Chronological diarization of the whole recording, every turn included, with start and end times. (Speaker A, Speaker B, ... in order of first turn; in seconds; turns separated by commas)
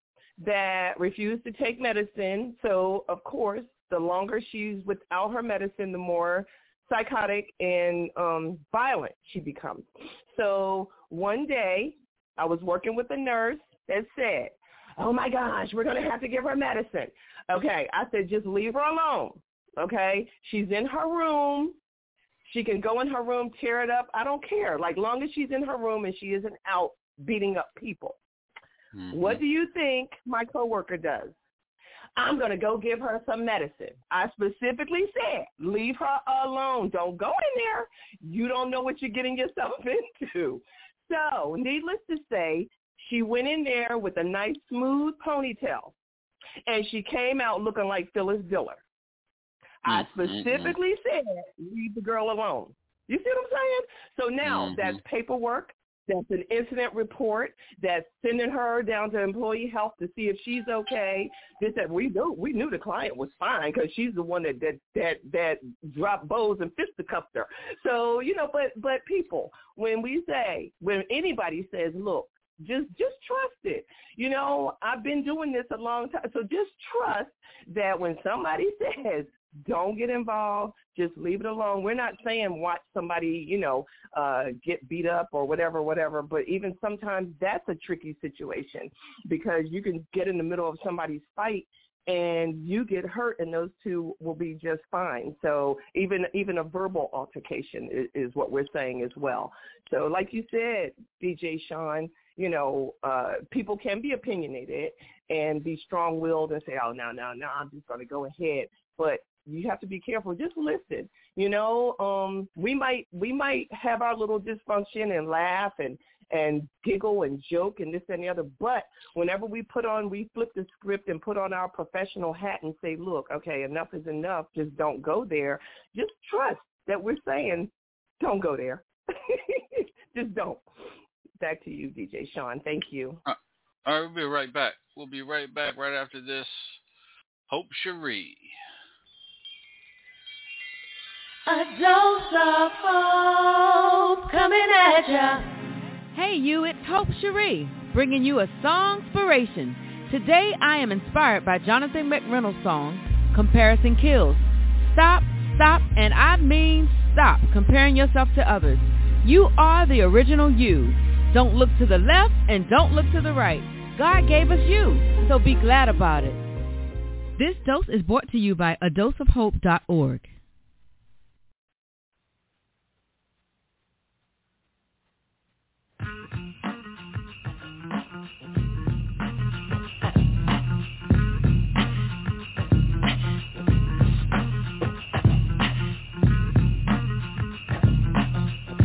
Speaker A: 0.4-21.8, Speaker A: 22.4-28.2, Speaker B: 28.9-29.4, Speaker A: 29.1-31.3, Speaker A: 32.2-45.9, Speaker A: 46.7-48.8, Speaker A: 49.8-130.6, Speaker B: 49.9-50.8, Speaker B: 54.4-55.0, Speaker A: 131.4-133.2, Speaker B: 133.3-136.8, Speaker B: 137.5-138.5, Speaker C: 141.5-145.4, Speaker D: 146.1-166.4, Speaker D: 167.4-170.3